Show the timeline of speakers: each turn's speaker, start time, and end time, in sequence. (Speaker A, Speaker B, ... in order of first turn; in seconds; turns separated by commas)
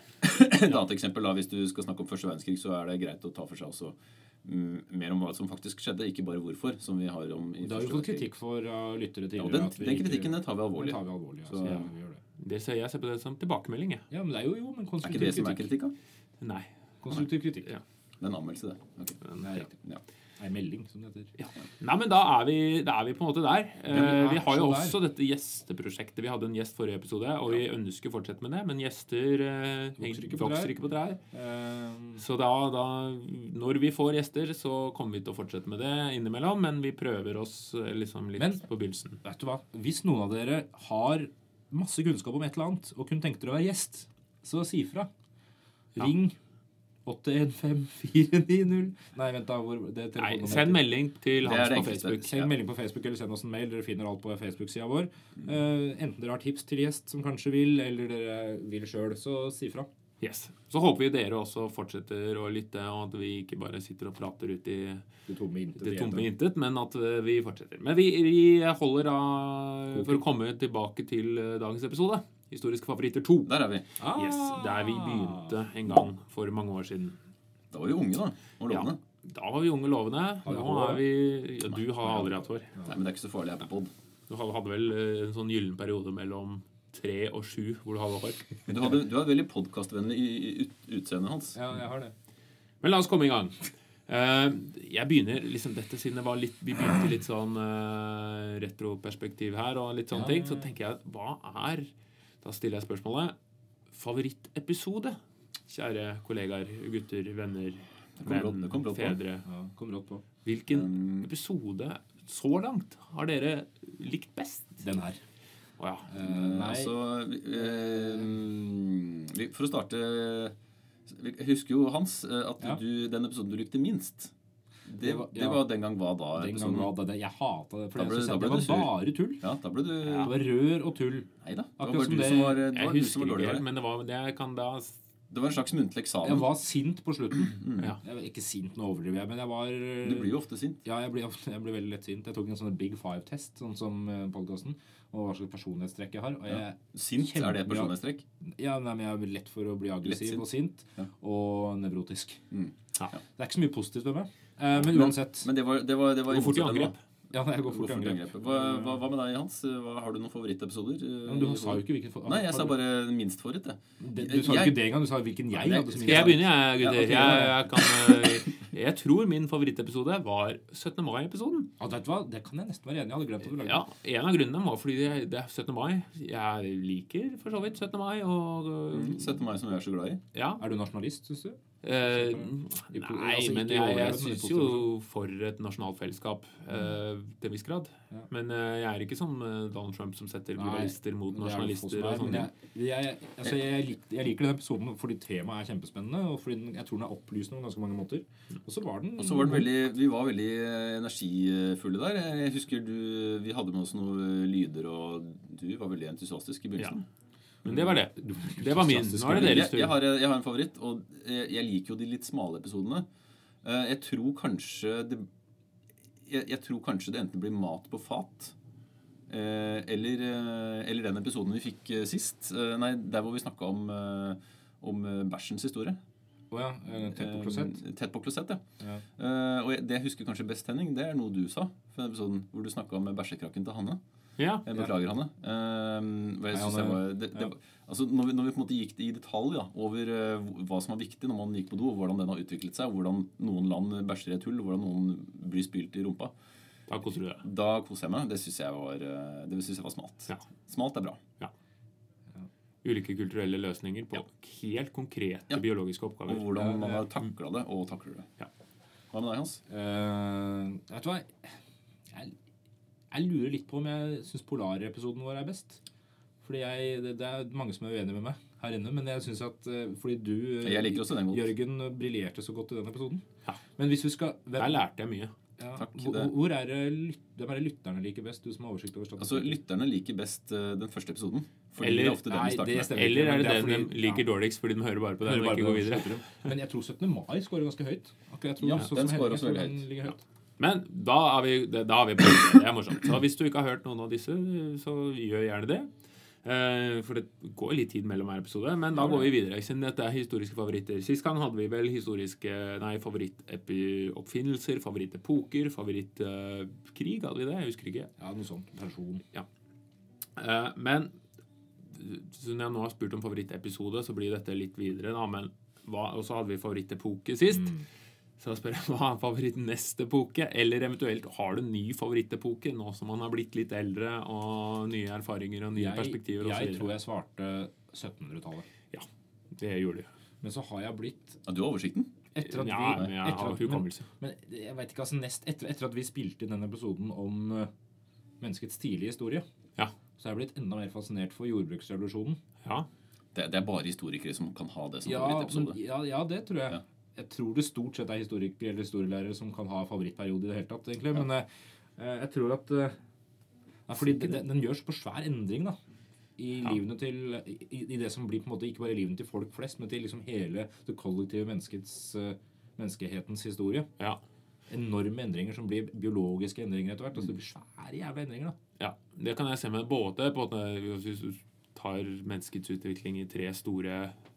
Speaker A: 0.2-8.3, Speaker B: 7.6-12.2, Speaker A: 9.4-11.9, Speaker C: 12.4-14.1, Speaker B: 14.1-15.7, Speaker A: 15.0-15.9, Speaker C: 16.4-16.7, Speaker B: 17.0-17.7, Speaker A: 18.2-19.2, Speaker C: 19.2-19.7, Speaker B: 19.4-19.7, Speaker B: 20.4-21.3, Speaker C: 21.4-31.2, Speaker A: 23.9-24.3, Speaker B: 23.9-25.0, Speaker B: 30.0-30.8, Speaker B: 31.3-32.2, Speaker C: 32.2-39.2, Speaker B: 38.4-38.6, Speaker B: 39.2-45.1, Speaker B: 46.0-46.4, Speaker B: 47.0-50.9, Speaker C: 50.2-52.3, Speaker A: 51.4-52.5, Speaker B: 51.8-59.9, Speaker C: 60.2-65.1, Speaker B: 65.3-66.3, Speaker C: 65.8-73.5, Speaker B: 69.9-70.2, Speaker A: 73.5-73.8, Speaker B: 74.0-75.5, Speaker C: 74.1-77.2, Speaker A: 77.7-79.0, Speaker C: 78.7-82.7, Speaker B: 80.5-81.0, Speaker B: 82.0-82.9, Speaker A: 82.8-83.9, Speaker C: 84.3-88.5, Speaker A: 88.7-91.6, Speaker B: 91.5-92.2, Speaker C: 92.8-101.9, Speaker B: 100.1-100.7, Speaker C: 102.4-103.3, Speaker C: 103.9-109.5, Speaker A: 108.2-109.2, Speaker B: 109.5-110.2, Speaker C: 110.5-114.9, Speaker A: 110.7-111.3, Speaker B: 114.8-115.2, Speaker C: 115.8-116.1, Speaker B: 116.1-116.9, Speaker A: 116.2-120.5, Speaker B: 117.6-118.3, Speaker A: 121.1-124.3, Speaker A: 124.9-126.9, Speaker B: 125.0-125.7, Speaker B: 126.3-129.5, Speaker A: 128.0-130.4, Speaker C: 130.0-130.3, Speaker B: 130.2-132.6, Speaker A: 131.4-133.6, Speaker C: 132.7-135.0, Speaker A: 135.3-136.5, Speaker B: 136.2-147.9, Speaker A: 137.5-137.9, Speaker A: 140.0-140.8, Speaker A: 146.5-148.2, Speaker B: 148.4-152.4, Speaker A: 150.0-150.4, Speaker B: 153.3-155.5, Speaker A: 154.8-156.9, Speaker C: 156.3-156.9, Speaker B: 157.3-159.0, Speaker A: 157.7-164.8, Speaker B: 161.3-162.8, Speaker B: 164.0-167.6, Speaker A: 165.5-167.7, Speaker C: 166.1-171.7, Speaker B: 171.8-173.8, Speaker C: 173.6-179.3, Speaker A: 178.9-180.2, Speaker C: 180.3-180.6, Speaker B: 180.6-184.9, Speaker C: 181.8-192.5, Speaker B: 190.6-199.8, Speaker A: 199.2-207.0, Speaker C: 207.7-210.0, Speaker A: 207.7-207.9, Speaker B: 208.1-209.8, Speaker A: 209.3-213.1, Speaker A: 213.6-215.3, Speaker A: 216.3-218.5, Speaker A: 219.3-226.0, Speaker B: 226.5-227.8, Speaker A: 227.1-228.6, Speaker A: 229.2-234.0, Speaker C: 234.4-234.7, Speaker A: 234.7-246.3, Speaker B: 236.5-237.5, Speaker C: 246.9-247.4, Speaker A: 247.4-251.2, Speaker C: 252.8-256.5, Speaker A: 256.3-258.3, Speaker B: 256.6-257.0, Speaker A: 259.1-259.6, Speaker B: 259.7-261.5, Speaker B: 263.1-265.8, Speaker B: 266.4-273.2, Speaker A: 270.6-271.5, Speaker B: 273.8-274.8, Speaker C: 274.6-275.3, Speaker B: 275.6-279.6, Speaker A: 275.8-276.3, Speaker A: 279.2-283.0, Speaker C: 281.8-282.2, Speaker B: 282.2-284.2, Speaker C: 282.9-286.2, Speaker B: 285.2-290.2, Speaker A: 288.6-289.9, Speaker C: 290.6-295.9, Speaker C: 296.4-308.1, Speaker B: 308.2-309.2, Speaker C: 310.4-311.1, Speaker C: 311.9-317.8, Speaker C: 318.4-327.0, Speaker B: 325.8-328.7, Speaker C: 328.9-330.1, Speaker B: 330.4-331.4, Speaker A: 331.5-332.1, Speaker B: 332.4-337.7, Speaker C: 332.6-334.1, Speaker B: 338.4-339.4, Speaker B: 340.2-342.4, Speaker A: 343.4-345.8, Speaker B: 345.0-353.0, Speaker B: 353.9-355.8, Speaker B: 356.4-363.9, Speaker B: 364.7-368.6, Speaker C: 368.8-374.2